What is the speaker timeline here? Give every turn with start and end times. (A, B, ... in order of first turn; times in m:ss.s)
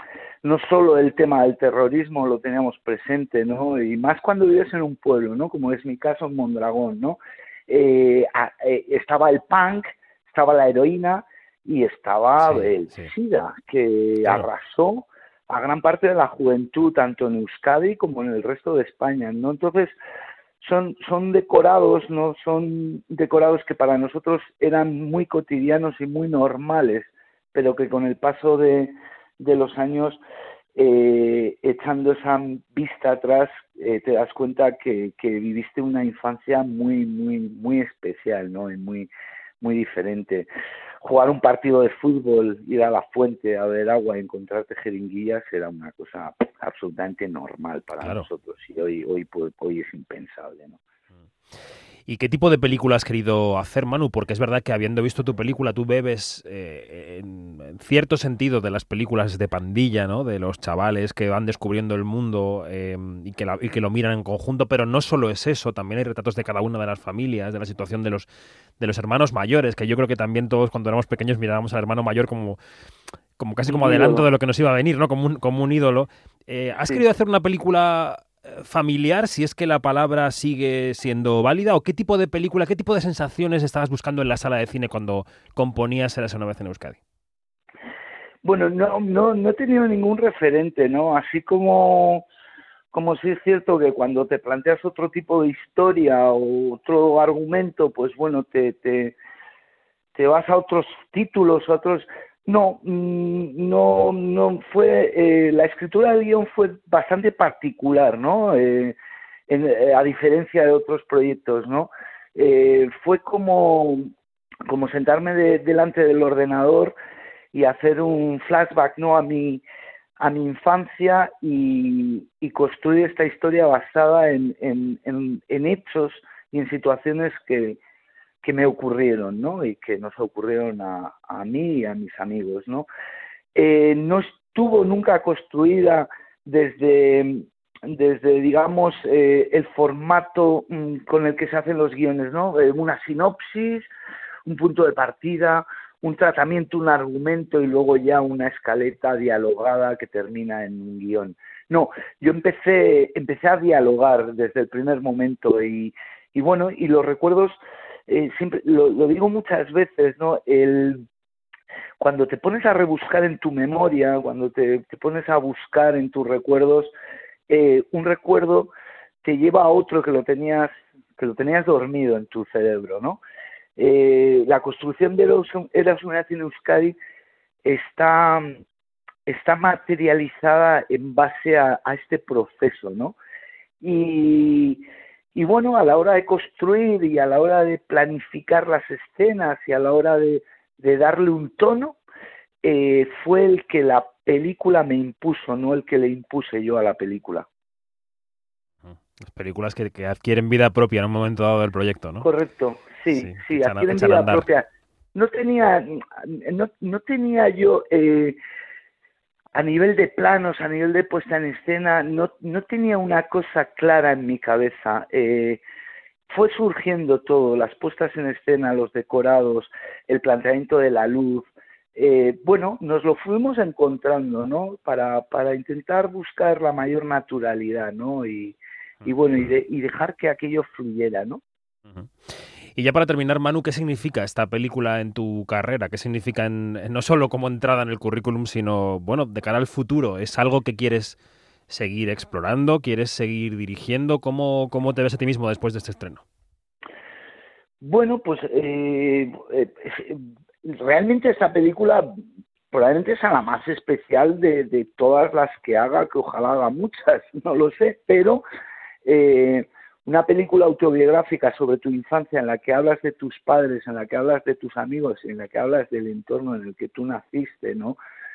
0:00.4-0:19.9 A
0:12.4-0:13.1 B
0:20.6-0:30.2 A
0:30.8-0:40.5 A
0:41.0-0:50.8 A
0:48.0-0:48.3 B
0:52.1-1:08.3 B
1:08.8-1:12.6 B
1:13.4-1:27.0 B
1:13.6-1:14.3 A
1:28.4-1:32.3 A
1:32.9-1:39.2 A
1:40.2-1:49.0 A
1:49.5-1:54.0 A
1:54.7-1:56.9 A
1:57.5-1:59.6 A
2:00.2-2:07.8 A
2:08.4-2:12.9 A
2:13.6-2:23.9 A
2:24.5-2:41.0 A
2:42.0-2:46.9 A
2:47.5-2:53.2 A
2:53.8-2:57.0 A
2:57.6-2:58.6 A
2:59.3-3:03.2 A
3:03.8-3:12.0 A
3:12.6-3:17.5 A
3:18.8-3:22.3 B
3:22.2-3:28.4 A
3:23.1-3:24.4 B
3:29.6-3:35.6 A
3:36.3-3:51.4 A
3:51.9-4:01.2 B
4:01.7-4:06.2 B
4:07.8-4:12.1 A
4:12.7-4:18.4 A
4:19.0-4:28.0 A